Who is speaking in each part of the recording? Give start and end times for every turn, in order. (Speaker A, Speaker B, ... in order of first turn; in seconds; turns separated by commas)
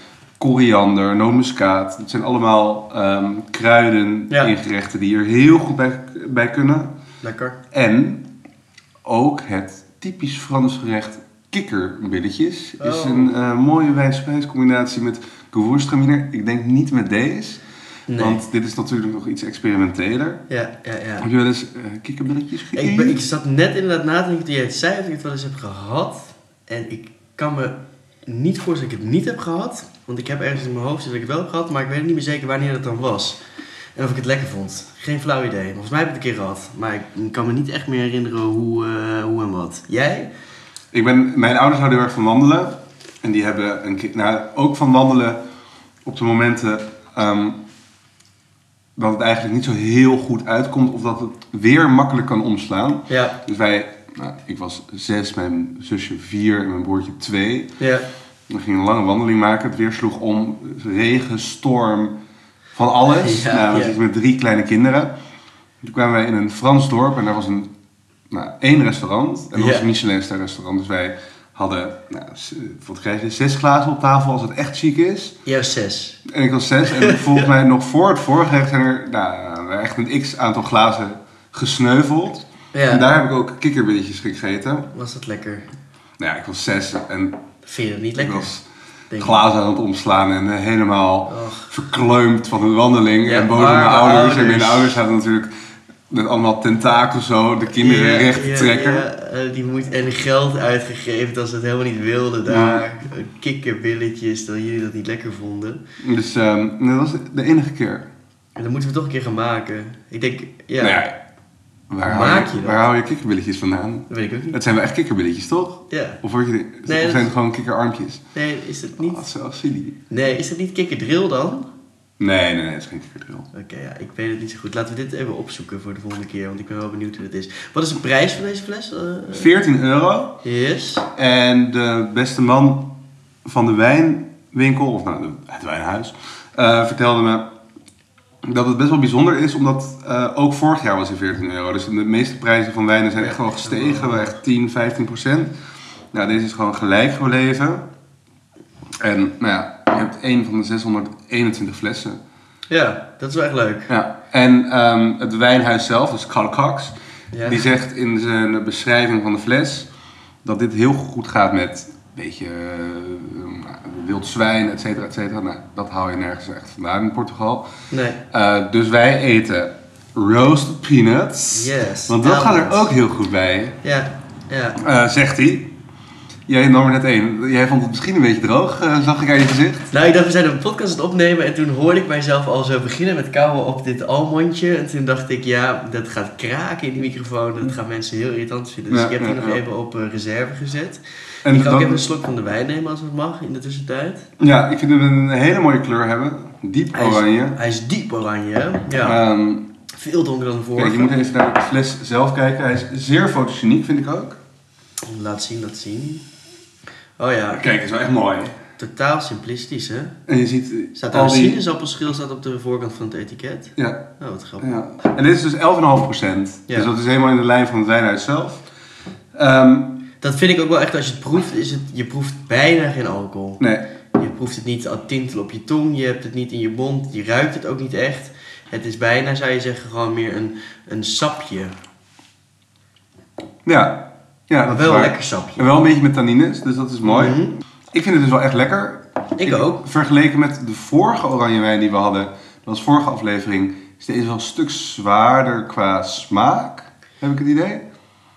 Speaker A: 0.4-6.9, Speaker B: 7.2-7.6, Speaker A: 7.7-8.2, Speaker A: 9.0-17.6, Speaker B: 12.8-13.3, Speaker B: 18.1-18.4, Speaker A: 18.2-20.4, Speaker B: 20.5-21.3, Speaker A: 21.2-23.2, Speaker B: 22.7-33.4, Speaker B: 34.0-40.3, Speaker A: 40.9-45.4, Speaker A: 46.0-47.6, Speaker A: 49.0-57.7, Speaker B: 53.1-53.4, Speaker B: 57.8-58.0, Speaker A: 58.5-62.2, Speaker A: 62.8-65.1, Speaker B: 63.1-64.0, Speaker A: 65.8-67.7, Speaker A: 68.3-75.4, Speaker B: 69.5-69.9, Speaker B: 75.5-76.2, Speaker A: 76.2-84.9, Speaker B: 76.9-77.5, Speaker B: 82.7-83.1, Speaker B: 84.9-85.7, Speaker A: 86.2-87.4, Speaker B: 87.6-88.5, Speaker A: 88.2-88.7, Speaker B: 89.1-89.4, Speaker A: 89.2-95.5, Speaker B: 91.3-91.7, Speaker B: 93.2-95.0, Speaker A: 96.1-99.0, Speaker B: 97.8-105.8, Speaker A: 102.5-102.9, Speaker A: 106.0-108.1, Speaker B: 108.6-111.0, Speaker A: 110.8-111.2, Speaker A: 111.9-118.2, Speaker B: 112.1-112.8, Speaker B: 114.1-114.6, Speaker B: 115.9-116.2, Speaker B: 116.9-117.3, Speaker B: 118.3-119.2, Speaker A: 119.0-120.0, Speaker B: 120.1-121.7, Speaker A: 122.2-123.5, Speaker B: 123.5-129.5, Speaker A: 129.3-130.4, Speaker B: 130.4-131.1, Speaker A: 131.1-132.9, Speaker A: 133.4-137.5, Speaker A: 138.4-145.5, Speaker B: 143.2-144.3, Speaker A: 146.1-147.8, Speaker A: 149.0-152.2, Speaker B: 152.7-153.9, Speaker A: 153.9-159.9, Speaker B: 157.3-157.6, Speaker A: 160.4-167.7, Speaker B: 167.9-168.2, Speaker A: 168.3-173.8, Speaker B: 171.5-172.9, Speaker B: 173.8-174.8, Speaker A: 174.8-175.7, Speaker A: 176.5-179.9, Speaker B: 179.9-194.3, Speaker A: 188.9-189.6, Speaker A: 191.4-192.0, Speaker A: 194.4-197.6, Speaker B: 196.9-199.2, Speaker A: 199.0-199.7, Speaker B: 199.9-201.2, Speaker A: 200.8-204.4, Speaker B: 205.0-206.2, Speaker B: 207.2-207.6, Speaker A: 207.5-208.6, Speaker B: 208.8-210.2, Speaker A: 210.3-211.6, Speaker B: 211.0-214.8, Speaker A: 213.8-214.1, Speaker A: 214.6-218.7, Speaker A: 219.3-220.0, Speaker B: 220.2-223.6, Speaker A: 223.6-223.8, Speaker B: 224.1-231.8, Speaker A: 233.7-247.8, Speaker B: 234.7-235.7, Speaker B: 237.0-237.6, Speaker B: 239.4-239.8